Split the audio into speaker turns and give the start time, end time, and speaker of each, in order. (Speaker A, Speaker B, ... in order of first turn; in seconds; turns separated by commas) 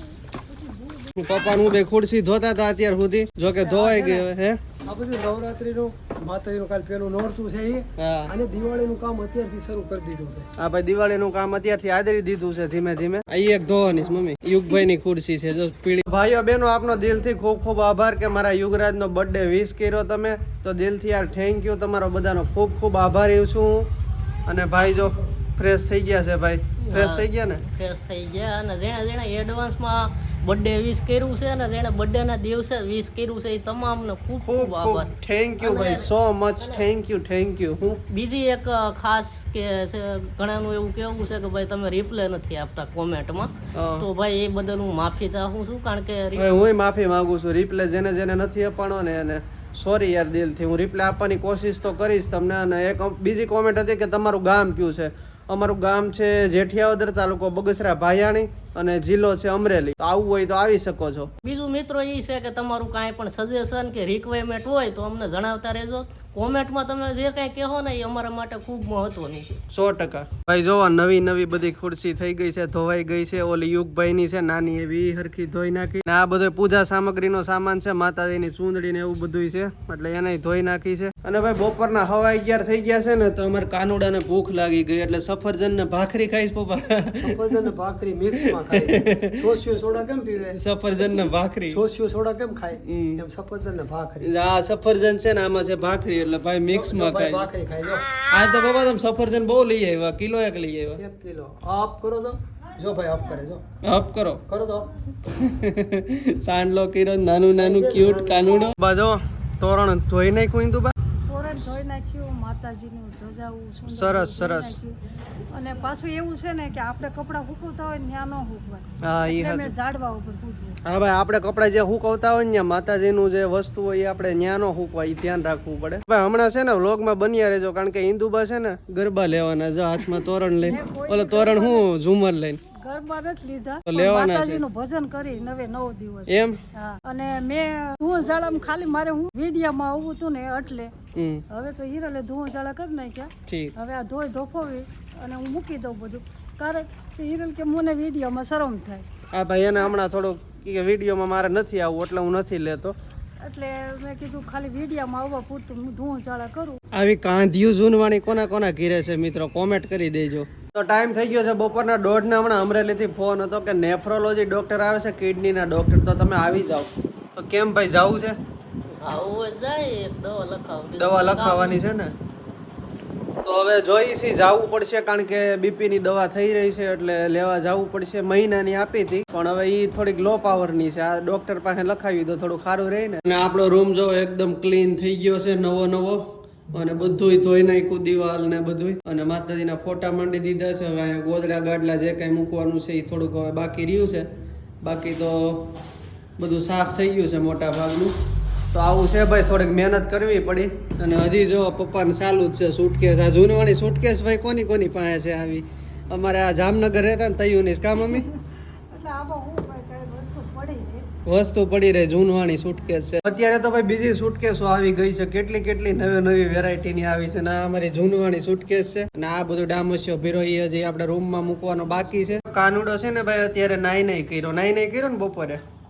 Speaker A: 0.5-1.2, Speaker B: 1.1-4.6, Speaker A: 3.6-4.3, Speaker C: 4.8-10.5, Speaker B: 8.0-8.3, Speaker B: 10.6-23.9, Speaker B: 24.4-27.6, Speaker D: 26.8-36.8, Speaker B: 34.4-38.0, Speaker D: 38.1-46.5, Speaker B: 43.7-44.1, Speaker B: 46.4-61.3, Speaker D: 61.4-69.5, Speaker B: 69.7-87.5, Speaker C: 87.2-90.6, Speaker B: 88.4-89.4, Speaker B: 90.5-91.8, Speaker C: 91.7-94.3, Speaker B: 92.8-93.2, Speaker B: 94.2-97.5, Speaker C: 96.7-98.1, Speaker B: 98.2-101.0, Speaker C: 101.0-103.6, Speaker B: 103.8-104.4, Speaker C: 104.5-104.9, Speaker B: 105.3-110.9, Speaker C: 107.5-108.7, Speaker A: 111.3-115.0, Speaker B: 113.9-114.8, Speaker A: 115.5-120.8, Speaker B: 119.0-119.7, Speaker B: 120.8-132.6, Speaker A: 130.6-131.8, Speaker A: 132.8-140.9, Speaker B: 133.8-134.6, Speaker B: 136.3-136.6, Speaker B: 141.1-141.4, Speaker A: 141.5-149.0, Speaker B: 143.5-143.7, Speaker B: 149.3-152.9, Speaker A: 153.4-156.8, Speaker B: 156.9-168.4, Speaker D: 168.9-171.8, Speaker B: 171.0-172.1, Speaker B: 173.4-194.3, Speaker B: 194.8-195.7, Speaker B: 196.4-198.1, Speaker B: 198.7-208.3, Speaker A: 207.9-208.4, Speaker A: 208.9-211.1, Speaker B: 211.2-225.6